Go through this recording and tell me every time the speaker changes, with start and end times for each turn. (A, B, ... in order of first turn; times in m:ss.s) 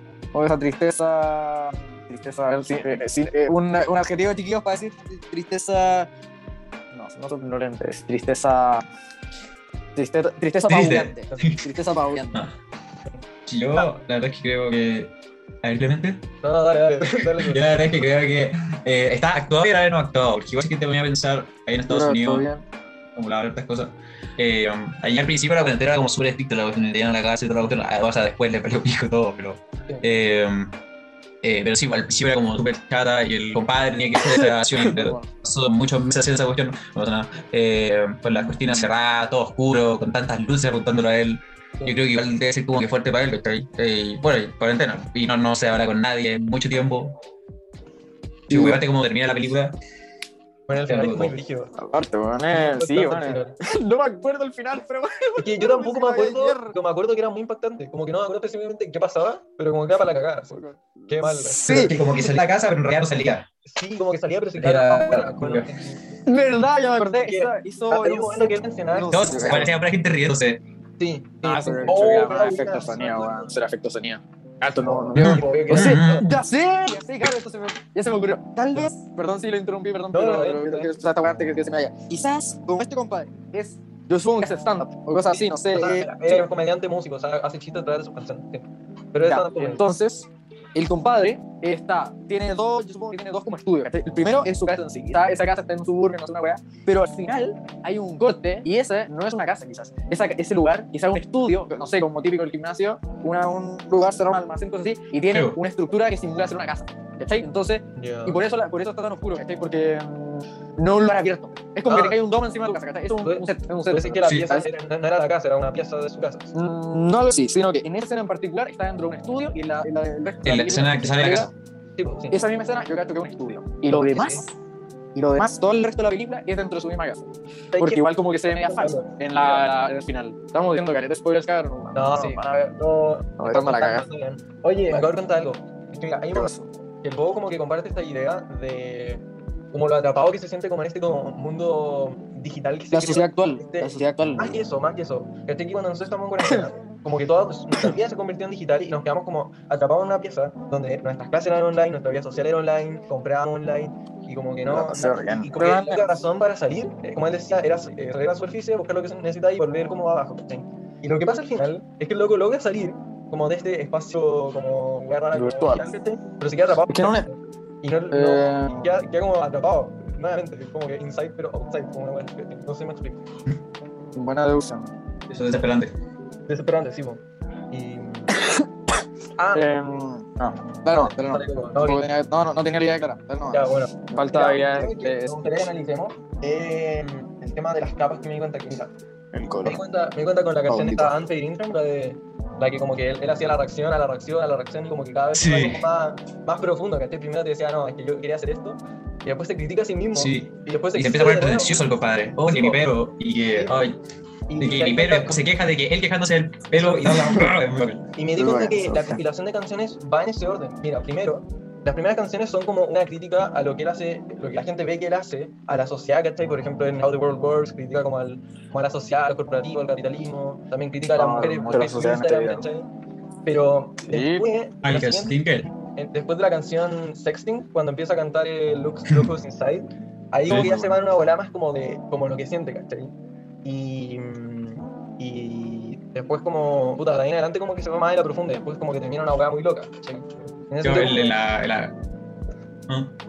0:00.3-0:06.1 A
0:06.9-0:08.8 A
0:10.0-0:12.4 A
0:10.7-0:11.6 B
0:13.5-0:16.2 B
0:16.4-0:17.7 C
0:17.3-0:22.4 B
0:21.9-0:22.6 A
0:23.2-0:30.7 B
0:31.4-0:47.2 B
0:34.4-0:35.2 A
0:48.5-0:48.8 A
0:48.5-0:49.8 B
0:50.7-0:51.7 C
0:50.8-0:51.3 B
0:51.8-0:56.7 A
0:52.5-0:53.6 C
0:55.4-1:01.9 C
1:00.5-1:02.0 A
1:01.6-1:03.5 B
1:03.6-1:06.2 C
1:04.6-1:05.3 A
1:04.6-1:05.7 B
1:06.2-1:09.7 A
1:07.0-1:09.6 C
1:09.1-1:10.6 B
1:11.0-1:13.5 C
1:11.4-1:26.4 A
1:14.8-1:16.3 C
1:15.2-1:16.3 B
1:20.1-1:20.9 C
1:25.3-1:29.8 C
1:29.2-1:54.7 A
1:45.3-1:45.6 B
1:48.0-1:48.4 C
1:51.8-1:52.2 C
1:53.2-1:56.5 C
1:56.5-2:01.5 A
2:00.4-2:01.5 B
2:02.0-2:02.4 C
2:02.3-2:04.4 A
2:03.9-2:04.4 C
2:05.1-2:07.3 A
2:07.7-2:09.6 C
2:07.8-2:12.7 A
2:11.9-2:53.2 C
2:13.4-2:14.0 A
2:16.3-2:16.7 A
2:22.9-2:24.6 A
2:34.7-2:36.0 A
2:45.3-2:45.9 A
2:46.9-2:47.3 A
2:48.1-2:48.9 A
2:54.1-2:54.9 A
2:55.3-2:55.9 B
2:56.5-2:58.4 C
2:59.4-2:59.7 C
2:59.5-3:05.6 A
3:00.9-3:02.1 C
3:03.5-3:08.9 C
3:09.3-3:09.8 A
3:09.6-3:21.8 C
3:10.7-3:11.1 A
3:15.3-3:15.8 B
3:20.1-3:24.0 B
3:22.4-3:22.8 C
3:23.5-3:23.8 C
3:24.5-3:25.4 C
3:24.6-3:28.0 B
3:26.7-3:27.4 C
3:27.2-3:27.4 A
3:28.2-3:42.9 C
3:28.4-3:29.2 A
3:41.2-3:42.6 A
3:43.4-3:45.3 C
3:44.1-3:44.5 A
3:44.8-3:45.7 B
3:45.9-3:53.1 C
3:50.5-3:51.0 A
3:53.6-4:01.4 C
4:00.8-4:01.9 B
4:02.9-4:03.1 B